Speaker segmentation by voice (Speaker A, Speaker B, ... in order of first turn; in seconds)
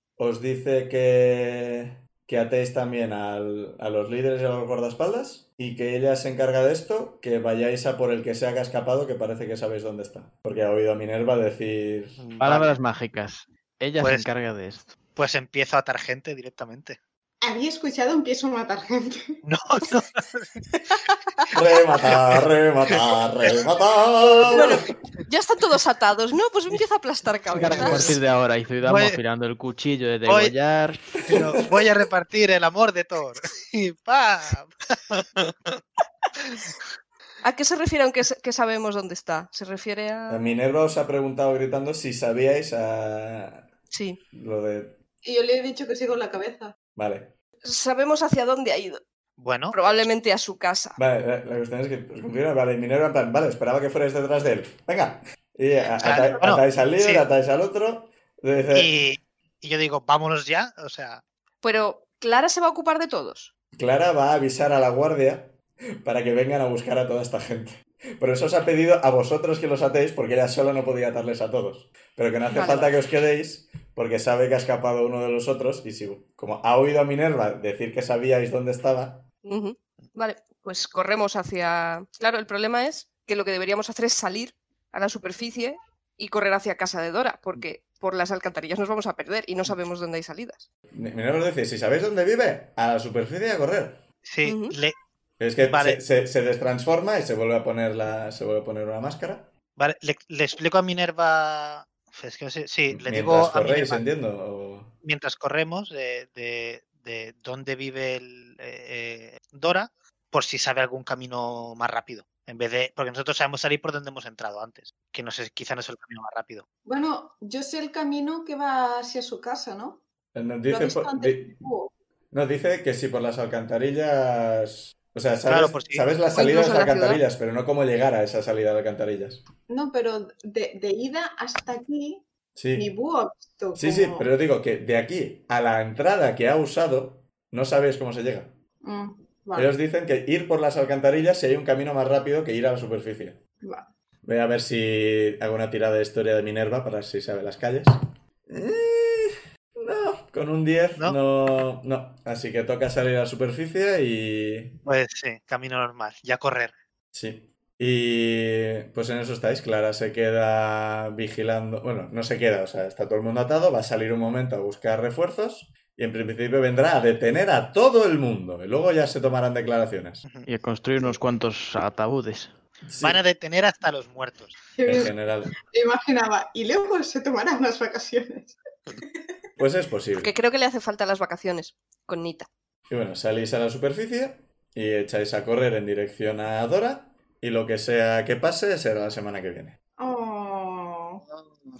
Speaker A: 0.2-12.2, 21.5-24.8, 31.3-31.6, 40.3-43.7, 44.3-45.0, 47.0-47.3, 51.0-58.9, 63.7-79.3, 90.9-94.0, 95.4-99.5, 102.9-104.9, 120.3-121.6, 122.3-129.4, 132.6-132.9, 133.7-138.6, 139.5-143.4, 144.2-154.8, 157.1-170.2, 172.9-173.2, 174.8-175.6, 179.6-180.3, 182.9-189.8
Speaker B: 12.2-12.7, 14.0-14.3, 15.2-17.0, 19.4-20.7, 22.9-23.5, 24.5-25.2, 27.7-28.2, 28.8-29.2, 30.3-30.5, 31.3-35.8, 36.4-36.7, 49.4-50.1, 55.9-57.2, 58.7-61.2, 94.2-95.0, 95.6-96.0, 99.8-104.0, 105.0-116.7, 125.5-126.1, 154.8-156.7, 173.0-174.6
Speaker C: 12.4-14.9, 27.5-31.2, 170.4-172.5
Speaker D: 17.4-19.4, 45.2-46.8, 116.8-120.0, 120.7-121.9, 129.7-134.3, 138.8-139.7, 143.6-143.9, 174.7-175.1, 175.7-179.2, 190.0-191.2
Speaker E: 24.5-28.2, 37.4-40.5, 43.9-44.2, 47.6-49.0, 49.7-51.0, 61.6-63.5, 72.5-73.0, 79.4-90.7, 94.4-94.8, 126.3-127.2, 180.2-182.5